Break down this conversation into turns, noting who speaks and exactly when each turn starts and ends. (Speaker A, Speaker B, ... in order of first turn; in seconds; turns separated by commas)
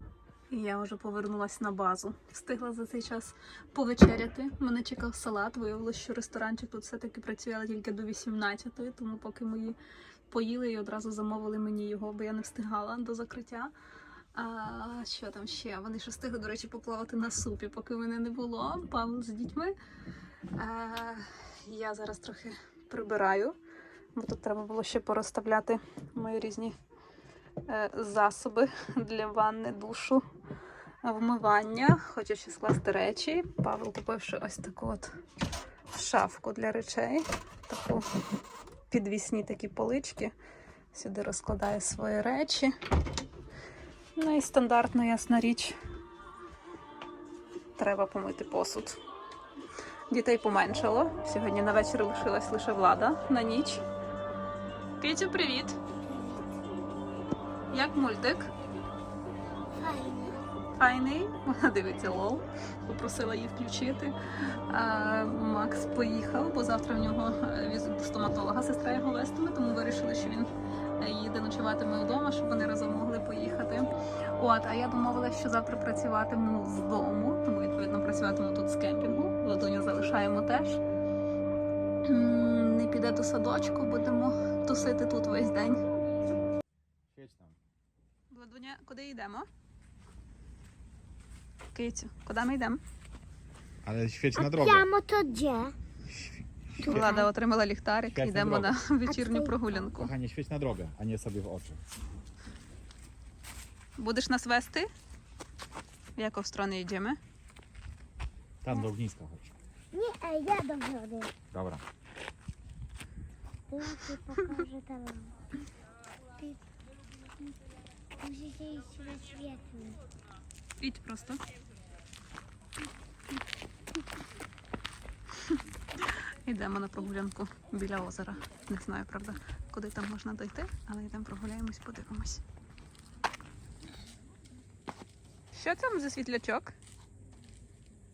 Speaker A: 0.5-9.8, Speaker A: 10.3-13.7, Speaker A: 14.3-19.8, Speaker A: 20.6-23.6, Speaker A: 24.1-26.8, Speaker A: 27.7-30.2, Speaker A: 31.0-35.1, Speaker A: 35.9-38.1, Speaker A: 38.9-40.3, Speaker A: 40.9-42.7, Speaker A: 44.2-45.8, Speaker A: 47.8-49.0, Speaker A: 50.1-53.8, Speaker A: 55.0-55.8, Speaker B: 56.1-56.4, Speaker A: 57.7-58.5, Speaker B: 59.8-60.5, Speaker A: 60.8-64.2, Speaker A: 64.7-80.8, Speaker A: 82.0-85.9, Speaker C: 87.1-87.6, Speaker A: 88.3-89.5, Speaker A: 91.7-92.8, Speaker C: 93.8-94.9, Speaker B: 94.4-95.8, Speaker C: 96.1-97.2, Speaker B: 96.8-97.3, Speaker A: 96.8-100.1, Speaker C: 98.1-98.8, Speaker B: 99.1-99.5, Speaker C: 99.8-101.8, Speaker A: 104.0-104.9, Speaker A: 106.2-107.2, Speaker C: 108.6-109.6, Speaker B: 109.9-111.3, Speaker C: 111.5-111.8, Speaker B: 113.7-115.4, Speaker B: 118.2-120.0, Speaker A: 120.8-121.4, Speaker A: 125.5-132.4, Speaker A: 135.5-136.7